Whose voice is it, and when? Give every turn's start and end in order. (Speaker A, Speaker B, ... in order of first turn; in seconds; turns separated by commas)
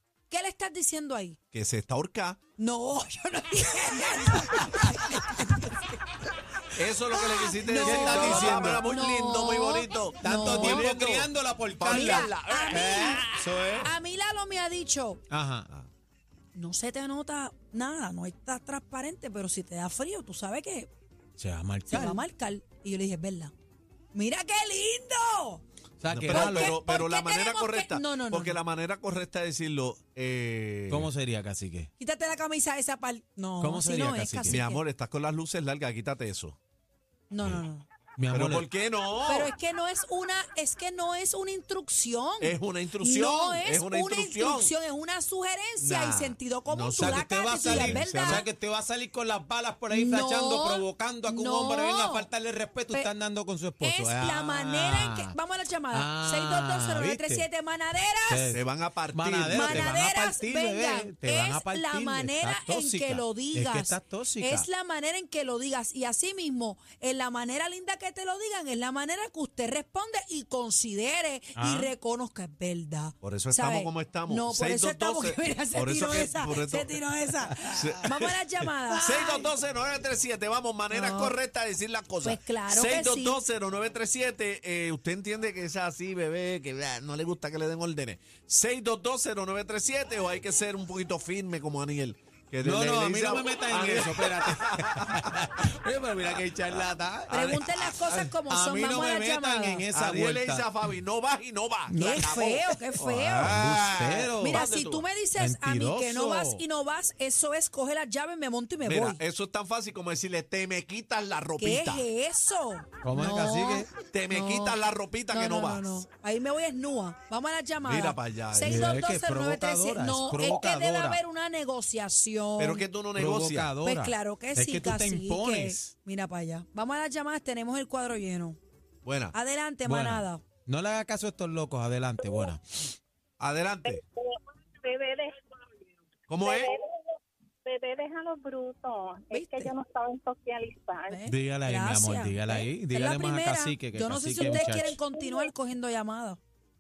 Speaker A: 0.3-1.4, Speaker B: 1.5-2.4, Speaker A: 2.6-5.8, Speaker B: 6.8-13.4, Speaker A: 7.4-10.9, Speaker C: 7.8-8.9, Speaker C: 10.2-13.9, Speaker A: 11.8-13.2, Speaker A: 13.8-15.2, Speaker C: 15.3-15.7, Speaker A: 16.6-20.9, Speaker C: 21.4-22.2, Speaker A: 21.9-23.5, Speaker A: 24.1-25.6, Speaker C: 26.0-26.8, Speaker B: 26.1-31.1, Speaker A: 26.3-28.6, Speaker C: 30.9-31.9, Speaker A: 32.0-34.8, Speaker C: 33.6-34.6, Speaker B: 34.5-36.6, Speaker A: 37.3-37.9, Speaker C: 38.2-38.6, Speaker B: 38.3-39.5, Speaker A: 39.2-48.5, Speaker B: 42.4-44.7, Speaker B: 45.8-48.5, Speaker C: 47.0-55.3, Speaker A: 49.9-52.3, Speaker A: 53.8-58.5, Speaker C: 55.9-57.5, Speaker C: 58.3-58.6, Speaker B: 58.5-59.9, Speaker C: 59.1-64.7, Speaker A: 59.5-79.4, Speaker C: 71.6-71.9, Speaker B: 73.2-76.9, Speaker B: 77.7-78.3, Speaker B: 79.0-95.2, Speaker A: 80.9-81.4, Speaker A: 82.2-83.4, Speaker C: 92.6-97.5, Speaker B: 97.3-98.3, Speaker A: 97.3-99.8, Speaker C: 98.4-100.7, Speaker B: 99.9-105.1, Speaker C: 101.9-102.3, Speaker A: 101.9-103.6, Speaker C: 103.4-104.7, Speaker A: 104.4-109.2, Speaker C: 105.3-106.6, Speaker B: 108.8-112.1, Speaker A: 111.6-114.8, Speaker C: 113.0-113.9, Speaker B: 114.1-116.0, Speaker A: 115.3-122.8, Speaker B: 117.8-119.0, Speaker C: 118.6-121.2, Speaker B: 122.6-123.7, Speaker C: 123.2-125.9, Speaker A: 123.8-128.6, Speaker B: 129.1-129.4, Speaker A: 129.3-130.4, Speaker C: 129.8-132.9, Speaker D: 132.2-132.5, Speaker B: 133.4-134.0, Speaker D: 133.8-135.4, Speaker B: 136.3-136.7, Speaker D: 136.4-141.3, Speaker A: 139.3-139.7, Speaker A: 141.1-146.4, Speaker C: 141.3-145.0, Speaker D: 144.4-145.5